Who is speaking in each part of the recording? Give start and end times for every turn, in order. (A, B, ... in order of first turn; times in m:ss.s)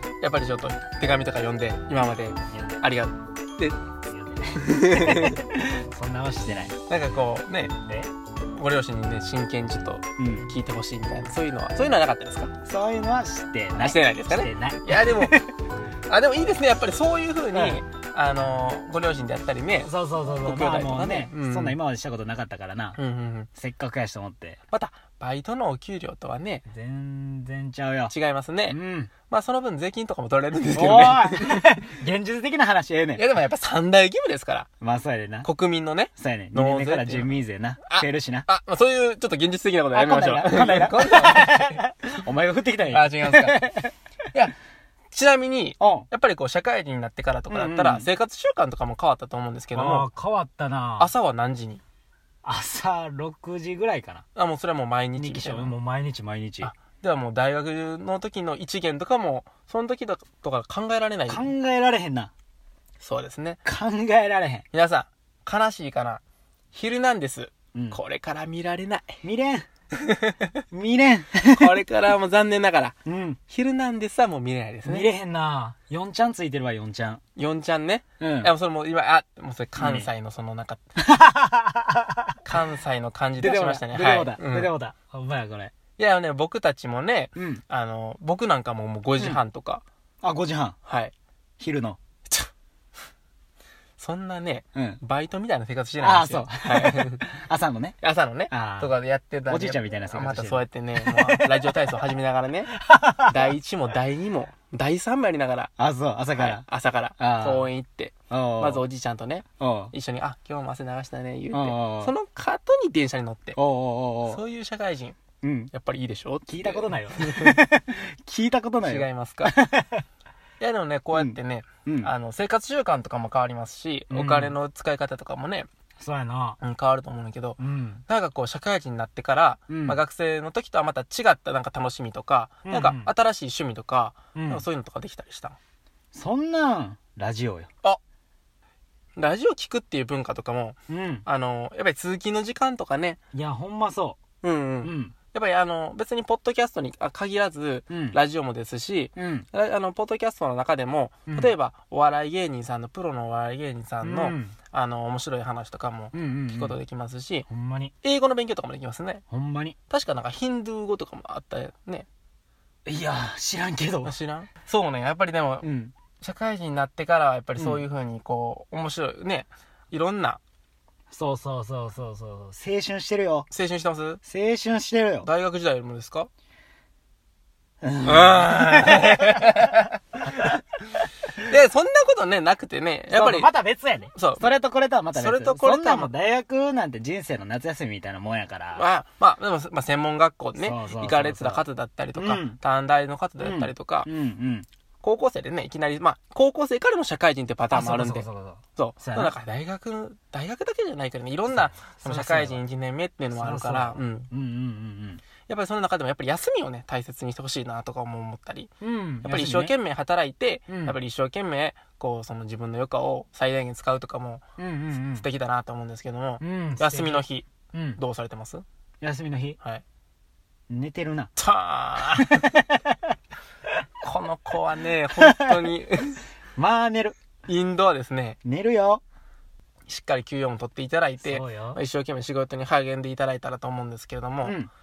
0:00.2-0:03.8 A
0:02.5-0:02.8 B
0:04.1-0:06.8 B
0:04.6-0:05.4 A
0:06.9-0:07.8 A
0:07.9-0:08.1 B
0:08.6-0:12.5 A
0:10.2-0:10.5 B
0:12.6-0:15.5 B
0:13.7-0:15.4 A
0:16.1-0:21.8 A
0:17.5-0:17.8 B
0:19.8-0:23.0 B
0:23.0-0:23.5 A
0:23.6-0:24.6 B
0:24.7-0:26.6 A
0:26.7-0:28.1 B
0:28.1-0:31.7 A
0:28.7-0:29.1 B
0:30.7-0:33.3 B
0:33.2-0:34.7 A
0:34.8-0:35.5 B
0:35.4-0:37.3 A
0:36.2-0:38.5 B
0:37.9-0:41.8 A
0:39.9-0:43.9 B
0:42.9-0:43.6 A
0:45.1-0:50.1 A
0:45.8-0:46.1 B
0:47.5-0:48.1 B
0:49.7-0:51.1 B
0:51.0-0:51.8 A
0:52.4-0:54.2 B
0:54.4-0:55.7 A
0:55.2-0:56.7 B
0:56.6-1:01.5 A
1:01.3-1:02.3 B
1:03.0-1:03.6 A
1:03.6-1:04.6 B
1:04.7-1:06.2 A
1:06.7-1:09.2 A
1:09.2-1:09.7 B
1:10.0-1:10.5 A
1:10.7-1:11.8 B
1:11.5-1:13.0 A
1:13.1-1:13.4 B
1:13.5-1:15.1 A
1:14.8-1:17.2 B
1:17.4-1:20.8 A
1:18.2-1:18.5 B
1:19.8-1:20.1 B
1:21.0-1:22.4 B
1:22.4-1:24.7 A
1:23.4-1:25.7 B
1:26.0-1:29.8 A
1:27.4-1:27.6 B
1:30.2-1:30.8 B
1:30.8-1:31.1 A
1:31.6-1:32.0 B
1:34.0-1:37.2 A
1:34.8-1:35.0 B
1:36.0-1:38.0 B
1:38.0-1:42.7 A
1:38.5-1:38.9 B
1:39.5-1:41.7 B
1:42.8-1:43.5 B
1:43.2-1:45.7 A
1:45.8-1:46.6 B
1:46.3-1:53.6 A
1:47.2-1:47.7 B
1:48.3-1:48.8 B
1:49.6-1:49.9 B
1:51.5-1:52.1 B
1:53.6-1:54.4 B
1:54.3-1:55.2 A
1:55.4-1:55.7 B
1:55.7-1:57.6 A
1:56.5-2:00.0 B
1:58.8-1:59.5 A
2:00.6-2:05.7 A
2:01.1-2:02.1 B
2:04.1-2:04.6 B
2:06.0-2:06.6 B
2:06.6-2:15.6 A
2:07.6-2:08.0 B
2:09.7-2:10.0 B
2:12.7-2:13.1 B
2:14.4-2:14.6 B
2:16.1-2:17.7 B
2:19.2-2:23.2 A
2:20.9-2:21.2 B
2:23.3-2:24.2 B
2:24.4-2:37.5 A
2:24.8-2:25.1 B
2:27.9-2:28.2 B
2:29.2-2:29.5 B
2:34.0-2:34.5 B
2:36.1-2:36.8 B
2:37.5-2:37.9 B
2:38.0-2:39.2 A
2:39.3-2:39.8 B
2:39.9-2:42.1 A
2:42.9-2:44.1 B
2:44.0-2:45.7 A
2:45.6-2:45.9 B
2:46.2-2:50.4 A
2:47.6-2:47.8 B
2:51.1-2:53.5 B
2:53.5-2:54.2 A
2:54.2-2:55.3 B
2:55.2-2:56.3 A
2:57.8-2:59.5 B
2:58.0-3:00.5 A
3:01.4-3:03.5 A
3:03.1-3:08.9 B
3:04.2-3:04.5 A
3:05.1-3:06.1 A
3:08.8-3:14.1 A
3:10.6-3:12.6 B
3:13.4-3:14.7 B
3:15.0-3:24.3 A
3:17.7-3:19.4 B
3:21.8-3:22.6 B
3:23.4-3:25.2 B
3:25.5-3:28.7 A
3:28.8-3:29.7 B
3:29.2-3:34.4 A
3:30.7-3:31.0 B
3:34.6-3:35.2 B
3:35.0-3:38.6 A
3:36.4-3:38.0 B
3:39.0-3:39.6 B
3:40.7-3:41.3 B
3:41.4-3:42.6 A
3:42.1-3:43.0 B
3:44.0-3:46.2 A
3:45.2-3:45.7 B
3:46.6-3:47.2 B
3:47.5-3:48.4 A
3:48.4-3:49.0 B
3:49.9-3:54.6 A
3:51.2-3:51.8 B
3:54.4-3:54.7 B